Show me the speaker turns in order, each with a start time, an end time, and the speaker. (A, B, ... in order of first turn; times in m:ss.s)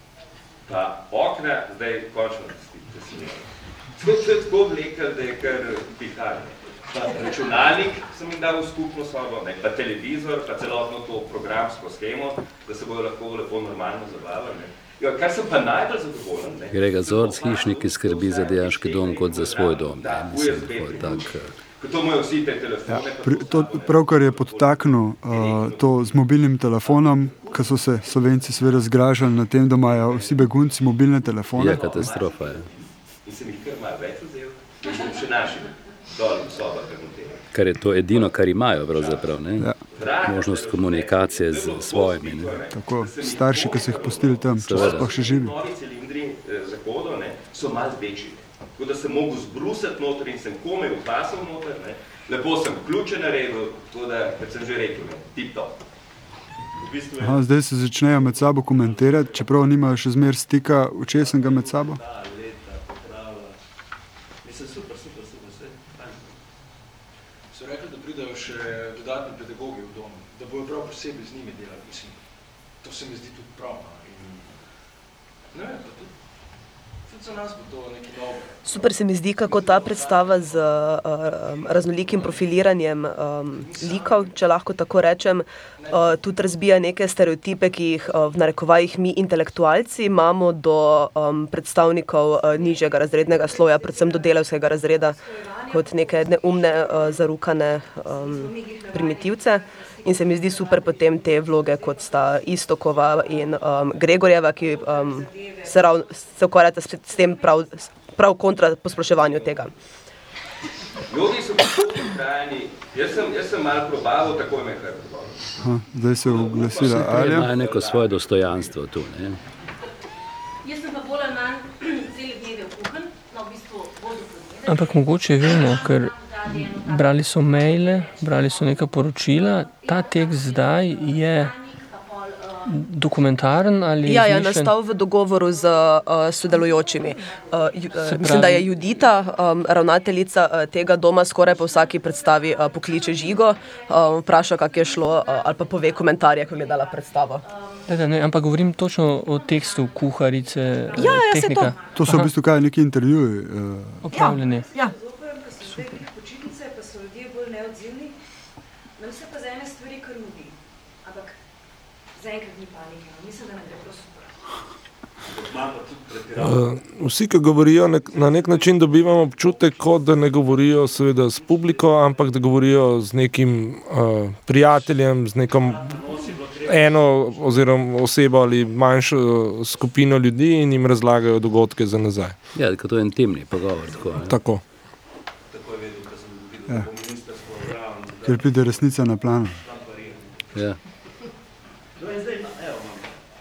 0:00.7-0:26.2 A
0:06.9-0:07.9 B
0:16.7-0:21.5 C
0:16.9-0:18.0 B
0:22.9-0:32.1 D
0:26.8-0:28.2 A
0:29.8-0:30.7 A
0:31.5-0:32.7 C
0:31.6-0:37.4 A
0:37.5-0:42.6 C
0:38.1-0:38.3 A
0:38.9-0:39.3 A
0:39.9-0:55.8 A
0:42.7-0:45.6 D
0:44.6-0:45.2 C
0:56.8-0:57.4 B
0:57.2-1:02.0 D
0:58.0-0:59.7 B
1:01.0-1:03.5 B
1:04.4-1:06.4 B
1:07.5-1:12.2 E
1:12.8-1:14.4 E
1:15.5-1:16.1 E
1:17.0-1:20.8 E
1:18.6-1:35.2 F
1:21.4-1:22.5 E
1:23.6-1:24.3 E
1:25.8-1:26.2 E
1:32.5-1:37.4 G
1:35.7-1:49.7 F
1:38.0-1:43.7 G
1:44.4-1:46.3 G
1:47.1-1:47.6 G
1:51.1-1:55.5 A
1:55.6-1:57.5 D
1:56.2-1:58.7 A
1:56.8-1:59.4 C
2:00.6-2:12.8 H
2:04.7-2:11.5 I
2:12.7-2:14.7 I
2:14.0-2:27.4 F
2:15.4-2:20.2 H
2:18.0-2:18.7 I
2:21.4-2:32.2 H
2:27.9-2:32.3 I
2:31.0-2:31.7 F
2:31.9-2:34.1 D
2:34.0-2:34.7 I
2:34.1-2:34.9 F
2:34.3-2:34.6 H
2:34.6-2:38.2 G
2:39.0-2:41.4 G
2:42.2-2:44.4 G
2:45.2-2:46.8 B
2:46.4-2:56.0 J
2:47.9-2:52.6 B
2:54.6-2:57.9 B
2:56.6-3:02.4 J
3:02.5-3:04.4 C
3:03.8-3:04.2 B
3:04.2-3:04.6 J
3:05.5-3:08.7 B
3:08.2-3:09.6 D
3:09.4-3:10.7 B
3:12.0-3:13.2 B